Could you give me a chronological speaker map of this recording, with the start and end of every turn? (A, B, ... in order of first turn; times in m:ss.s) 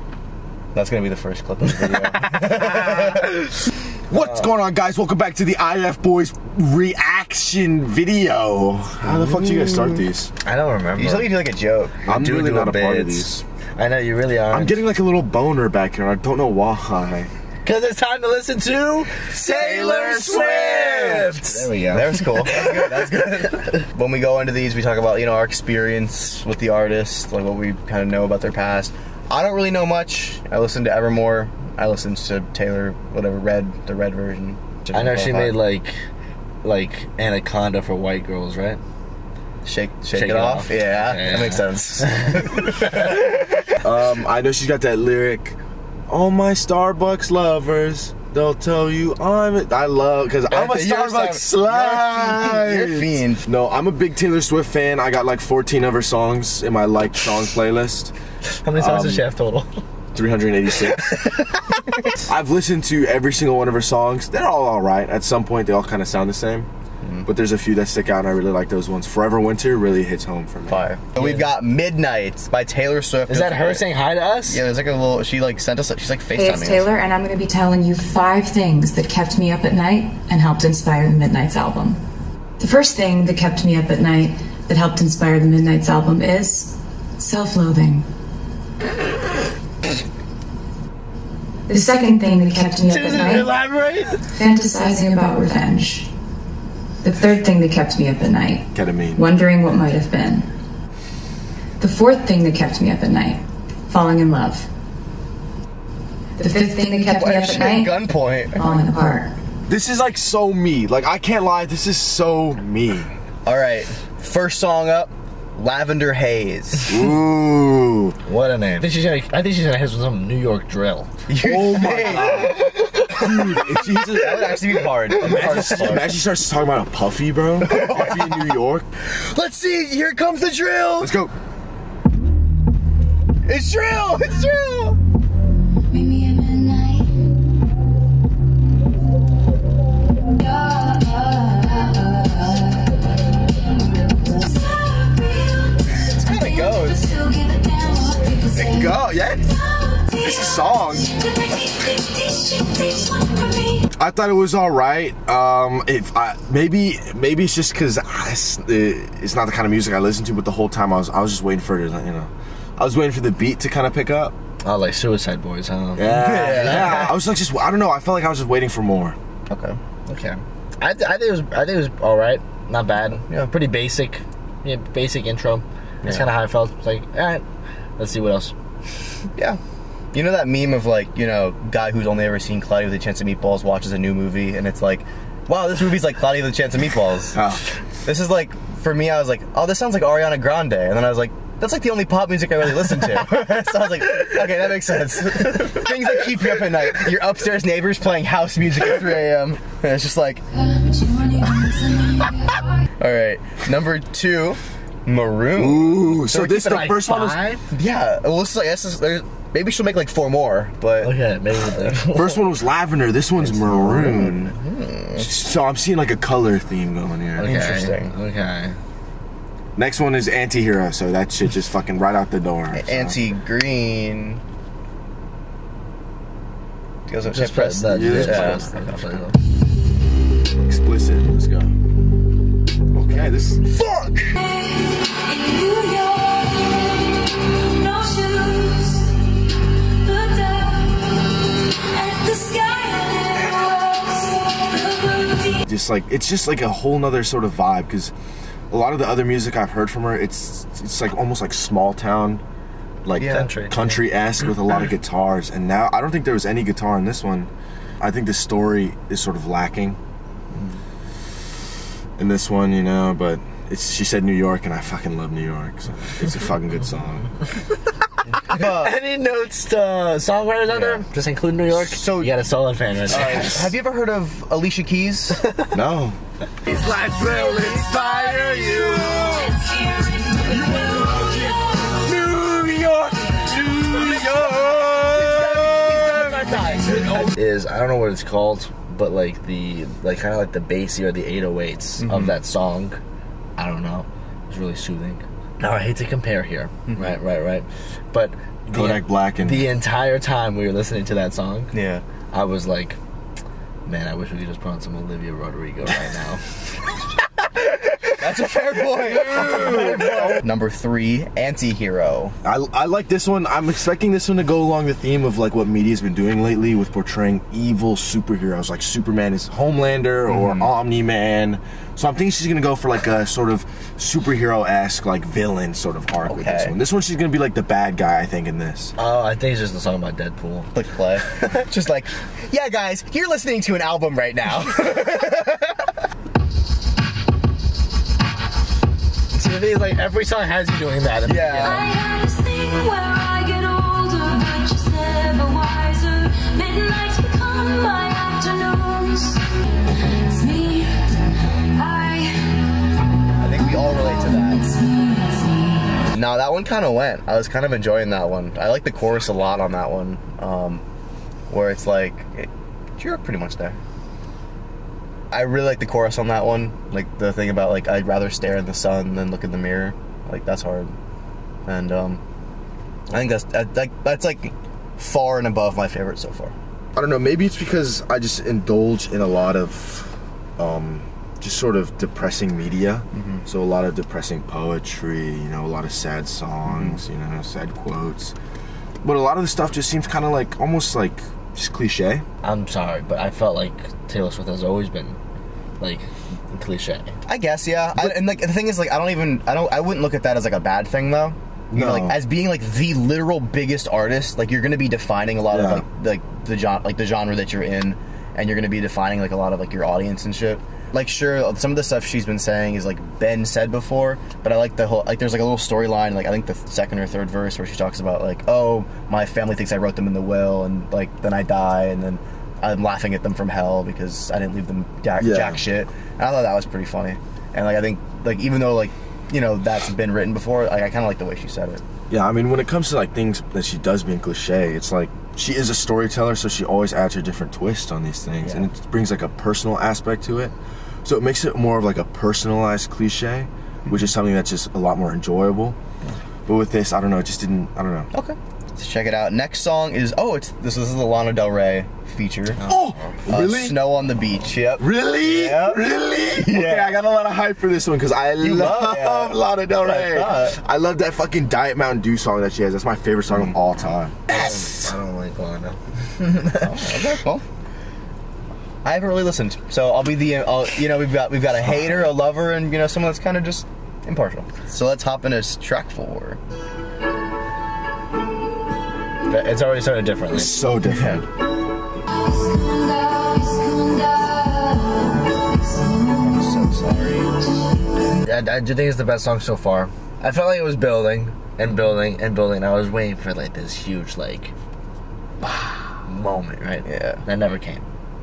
0:00.7-0:03.3 A
0:01.9-0:03.2 B
0:02.2-0:03.4 C
0:04.1-0:10.3 C
0:04.1-0:04.5 B
0:09.0-0:10.0 A
0:10.4-0:11.3 B
0:11.0-0:12.0 A
0:12.0-0:13.4 C
0:12.0-0:14.8 B
0:14.5-0:17.3 C
0:17.6-0:23.0 B
0:19.2-0:21.7 C
0:21.9-0:35.6 A
0:34.9-0:36.0 B
0:36.6-0:38.8 B
0:39.6-0:43.8 A
0:40.1-0:43.2 B
0:43.8-0:45.6 C
0:46.1-0:58.1 C
0:50.5-0:53.4 A
0:58.6-0:59.7 B
0:58.7-0:59.2 C
1:00.1-1:01.3 C
1:00.8-1:02.1 B
1:02.2-1:06.7 C
1:07.2-1:10.9 C
1:10.7-1:13.8 A
1:11.2-1:11.4 B
1:13.3-1:14.6 B
1:14.4-1:16.9 A
1:16.3-1:22.0 D
1:22.6-1:28.1 D
1:31.7-1:33.5 D
1:32.8-1:34.2 B
1:34.3-1:36.1 D
1:37.0-1:40.5 D
1:38.7-1:39.2 C
1:41.8-1:44.7 D
1:46.4-1:49.3 D
1:47.0-1:48.8 A
1:49.7-1:53.1 C
1:53.4-1:56.9 A
1:56.8-1:58.2 C
1:58.2-2:01.1 B
2:01.3-2:06.2 A
2:01.4-2:08.9 C
2:07.6-2:11.1 A
2:11.0-2:11.3 C
2:13.4-2:15.0 A
2:15.9-2:17.2 E
2:20.4-2:23.0 E
2:24.2-2:33.9 E
2:26.0-2:27.0 A
2:28.5-2:29.5 C
2:30.2-2:31.1 C
2:33.9-2:44.4 C
2:44.6-2:47.1 B
2:46.0-2:49.2 C
2:46.1-2:47.1 A
2:49.5-2:49.8 A
2:50.0-2:57.4 B
2:58.0-2:58.5 B
3:00.1-3:07.4 A
3:07.3-3:07.6 C
3:08.0-3:20.4 A
3:20.5-3:22.8 E
3:23.0-3:26.9 A
3:25.5-3:27.4 C
3:26.6-3:27.6 B
3:27.7-3:31.2 A
3:31.0-3:32.5 B
3:31.7-3:32.0 A
3:32.1-3:34.5 C
3:33.4-3:34.1 B
3:34.0-3:35.3 A
3:35.2-3:37.5 C
3:37.4-3:38.8 B
3:37.4-3:38.1 A
3:39.8-3:43.2 C
3:42.7-3:44.4 A
3:47.1-3:48.8 A
3:47.2-3:49.4 B
3:47.9-3:49.2 C
3:50.5-3:51.7 C
3:52.9-3:53.6 C
3:53.6-3:54.4 A
3:54.4-3:59.4 E
3:59.9-4:05.6 E
4:05.6-4:08.1 C
4:08.7-4:12.4 C
4:13.0-4:20.0 C
4:13.2-4:13.5 A
4:13.2-4:14.0 B
4:20.5-4:20.8 A
4:22.2-4:27.3 C
4:28.3-4:33.6 B
4:28.4-4:29.0 A
4:30.7-4:31.0 A
4:31.7-4:32.4 A
4:33.1-4:35.4 A
4:33.1-4:33.6 C
4:35.4-4:35.7 B
4:35.7-4:36.2 C
4:36.6-4:39.6 B
4:37.1-4:42.0 E
4:38.7-4:39.5 C
4:40.5-4:47.3 C
4:43.7-4:47.3 A
4:46.1-4:53.0 B
4:52.0-4:52.4 A
4:53.6-5:01.7 B
4:56.9-4:57.1 A
4:58.7-4:59.7 C
5:01.7-5:02.0 A
5:02.3-5:03.0 B
5:03.8-5:06.8 B
5:08.2-5:12.3 A
5:09.1-5:10.4 C
5:12.4-5:28.9 C
5:20.3-5:20.7 A
5:26.2-5:26.8 A
5:29.0-5:30.7 B
5:30.7-5:35.9 A
5:39.3-5:41.8 B
5:41.2-5:41.9 A
5:41.6-5:52.8 E
5:53.4-5:54.6 A
5:53.6-5:56.1 E
5:56.1-6:00.8 A
6:01.5-6:03.8 A
6:05.3-6:10.9 A
6:11.6-6:12.2 A
6:13.1-6:16.5 A
6:17.0-6:28.3 C
6:23.1-6:23.4 A
6:26.6-6:27.0 A
6:29.0-6:32.2 C
6:32.4-6:35.2 B
6:35.8-6:37.1 B
6:37.2-7:11.8 A
6:41.7-6:42.2 C
6:45.5-6:45.8 C
7:05.2-7:05.6 C
7:12.1-7:25.8 C
7:26.4-7:28.1 C
7:28.1-7:32.6 A
7:32.5-7:33.2 B
7:32.6-7:33.8 C
7:33.3-7:37.0 A
7:34.8-7:44.9 C
7:38.4-7:40.6 A
7:44.3-7:46.8 B
7:46.5-7:47.4 A
7:48.8-7:56.4 A
7:59.3-8:00.6 B
8:00.3-8:01.3 C
8:00.8-8:01.2 A
8:02.1-8:07.7 E
8:06.2-8:07.3 A
8:08.2-8:14.5 B
8:15.4-8:16.0 A
8:16.0-8:17.8 B
8:16.8-8:17.2 A